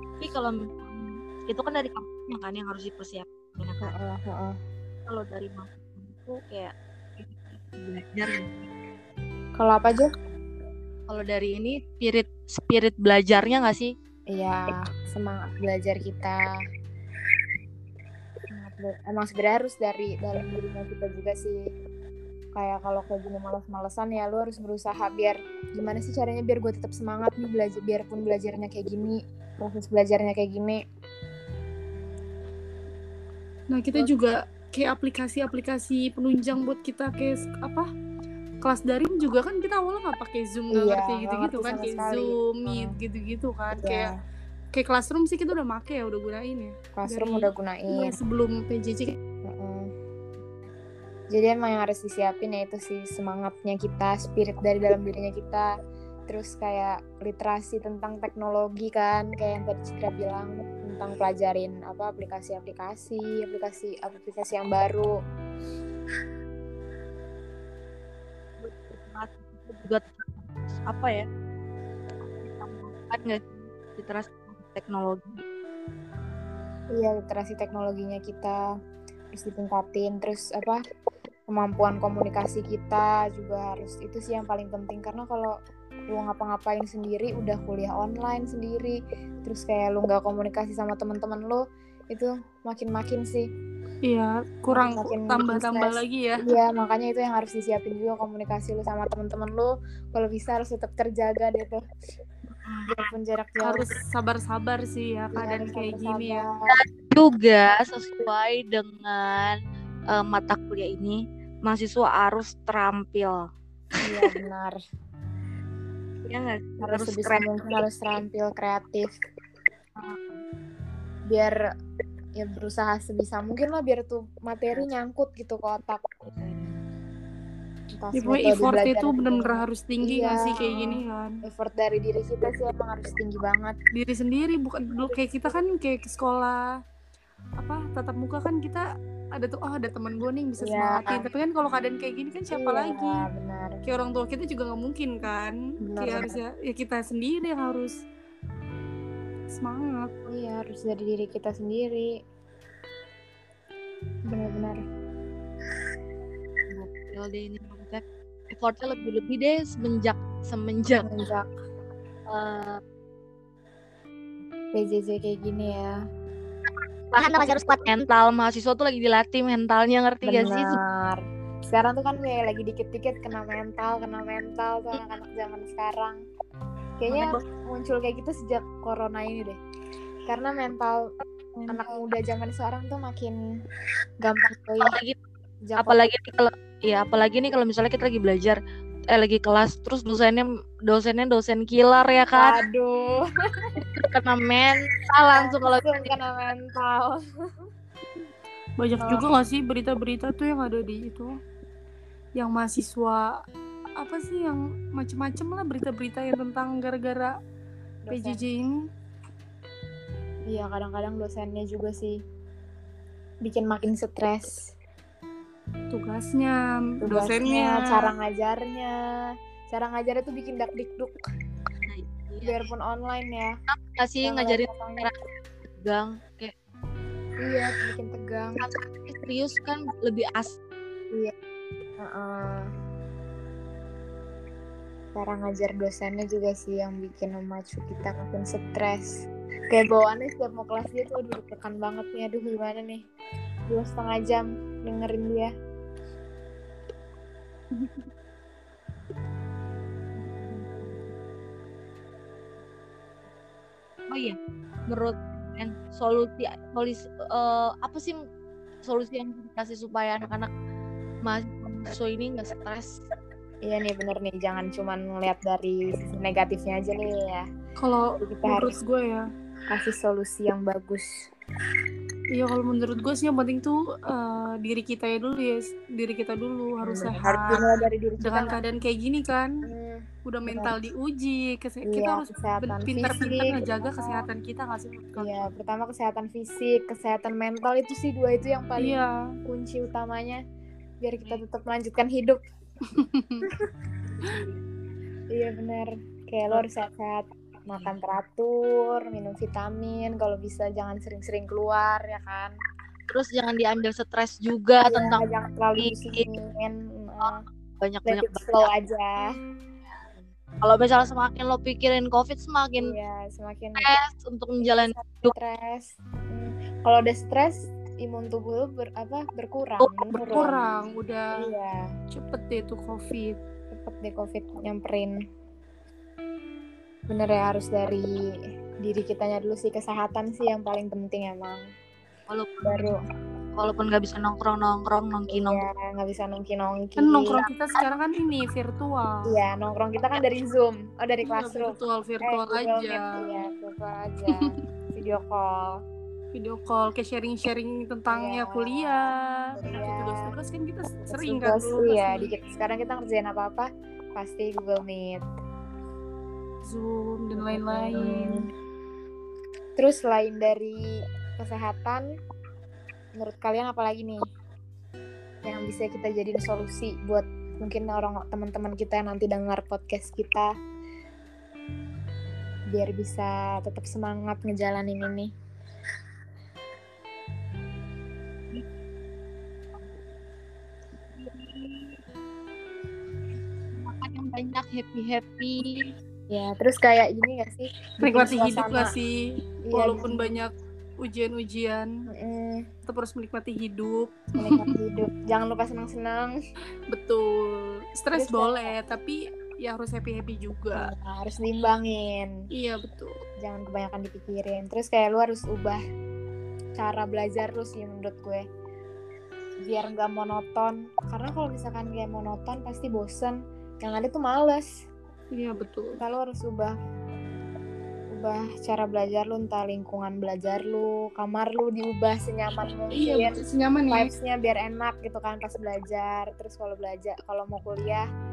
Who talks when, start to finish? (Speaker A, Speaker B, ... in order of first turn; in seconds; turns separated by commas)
Speaker A: 0.2-3.9, Speaker B: 3.8-4.6, Speaker A: 5.1-6.7, Speaker A: 7.9-8.5, Speaker B: 9.6-10.1, Speaker A: 11.1-13.9, Speaker B: 14.3-16.5, Speaker B: 18.5-21.6, Speaker B: 22.6-30.8, Speaker C: 33.7-37.9, Speaker C: 38.6-44.1, Speaker B: 40.7-43.0, Speaker B: 43.8-44.2, Speaker C: 44.7-49.2, Speaker B: 47.0-48.2, Speaker B: 49.5-49.9, Speaker B: 51.3-55.7, Speaker B: 56.3-65.1, Speaker A: 68.6-71.2, Speaker A: 72.4-73.4, Speaker A: 74.0-75.4, Speaker B: 76.9-78.6, Speaker B: 79.3-80.8, Speaker B: 81.5-85.6, Speaker B: 86.1-93.5, Speaker C: 94.1-96.4, Speaker B: 94.7-101.8, Speaker A: 102.7-103.0, Speaker B: 102.9-103.9, Speaker C: 103.6-106.5, Speaker B: 105.3-106.7, Speaker A: 107.2-109.6, Speaker A: 110.1-113.4, Speaker B: 114.0-114.8, Speaker A: 116.3-117.5, Speaker B: 116.8-119.1, Speaker A: 120.0-120.3, Speaker B: 121.3-121.6, Speaker B: 122.4-126.0, Speaker A: 126.4-126.7, Speaker B: 128.0-133.8, Speaker C: 128.1-131.4, Speaker C: 133.9-136.7, Speaker C: 137.6-143.3, Speaker B: 140.6-141.3, Speaker B: 142.5-143.8, Speaker C: 143.8-148.0, Speaker B: 145.8-146.4, Speaker C: 149.5-150.1, Speaker B: 150.3-152.2, Speaker B: 154.3-154.8, Speaker A: 156.8-158.0, Speaker A: 158.6-161.1, Speaker B: 161.0-161.5, Speaker A: 162.3-162.8, Speaker B: 164.7-166.0, Speaker A: 167.1-170.8, Speaker B: 170.2-176.2, Speaker B: 177.0-179.6, Speaker A: 177.1-177.4, Speaker B: 180.3-181.1, Speaker B: 181.7-183.4, Speaker B: 184.2-185.0, Speaker A: 184.9-185.1, Speaker B: 185.7-186.0, Speaker A: 185.8-188.6, Speaker A: 189.1-192.6, Speaker B: 192.3-193.3, Speaker A: 194.1-196.0, Speaker B: 195.3-197.7, Speaker C: 198.8-201.3, Speaker B: 199.0-199.2, Speaker C: 202.4-203.4, Speaker C: 204.0-207.3, Speaker B: 208.0-208.4, Speaker C: 208.1-208.9, Speaker B: 210.5-212.2, Speaker B: 213.4-214.7, Speaker C: 215.9-218.1, Speaker B: 217.0-218.9, Speaker B: 219.7-221.2, Speaker A: 221.9-222.6, Speaker B: 222.4-223.6, Speaker A: 224.0-225.1, Speaker B: 224.2-225.1, Speaker A: 225.8-226.5, Speaker B: 227.4-228.6, Speaker A: 228.6-230.5, Speaker B: 232.0-232.7, Speaker B: 235.2-243.0, Speaker B: 243.7-245.5, Speaker A: 250.4-250.9, Speaker A: 254.1-254.4, Speaker A: 254.9-258.2, Speaker A: 258.9-260.5, Speaker A: 261.3-262.9, Speaker B: 263.6-267.5, Speaker C: 267.8-269.2, Speaker B: 268.2-268.8, Speaker B: 269.7-271.3, Speaker C: 272.3-277.6, Speaker B: 276.8-278.6, Speaker C: 278.2-279.6, Speaker B: 279.6-280.8, Speaker C: 280.3-285.4, Speaker B: 281.9-284.3, Speaker B: 285.2-290.4, Speaker C: 288.8-289.2, Speaker B: 291.0-292.4, Speaker C: 292.9-293.5, Speaker B: 295.3-302.5, Speaker A: 303.1-305.2, Speaker B: 304.8-307.4, Speaker A: 305.8-306.2, Speaker A: 307.8-308.5, Speaker B: 308.1-309.3, Speaker A: 310.6-312.9, Speaker B: 312.8-313.9, Speaker A: 313.8-315.3, Speaker B: 314.6-320.6, Speaker A: 319.8-320.5, Speaker C: 320.1-321.3, Speaker B: 321.4-321.9, Speaker C: 322.1-323.4, Speaker B: 323.7-325.2, Speaker B: 327.1-328.3, Speaker B: 328.8-331.7, Speaker A: 332.3-332.9, Speaker B: 332.6-333.0, Speaker A: 333.6-335.6, Speaker B: 335.3-337.4, Speaker C: 337.0-339.3, Speaker B: 339.3-345.8, Speaker C: 341.2-343.4, Speaker C: 346.3-352.3, Speaker B: 348.1-350.3, Speaker B: 351.1-355.3, Speaker C: 356.6-358.5, Speaker B: 357.4-358.5, Speaker B: 359.8-362.1, Speaker B: 363.2-364.2, Speaker B: 365.4-370.5, Speaker B: 372.7-375.3, Speaker A: 381.2-382.0, Speaker A: 383.8-385.9, Speaker B: 386.3-388.9, Speaker C: 388.0-389.2, Speaker B: 389.7-390.3, Speaker C: 389.7-391.9, Speaker B: 392.1-392.7, Speaker C: 392.9-394.7, Speaker B: 394.4-396.4, Speaker C: 396.9-400.9, Speaker B: 398.1-398.8, Speaker B: 400.7-402.4, Speaker C: 402.5-403.1, Speaker B: 403.4-405.8, Speaker B: 406.8-408.4, Speaker B: 409.6-414.7, Speaker C: 415.3-416.0, Speaker B: 416.0-416.8, Speaker B: 418.1-423.4, Speaker C: 422.9-424.1, Speaker B: 423.9-428.1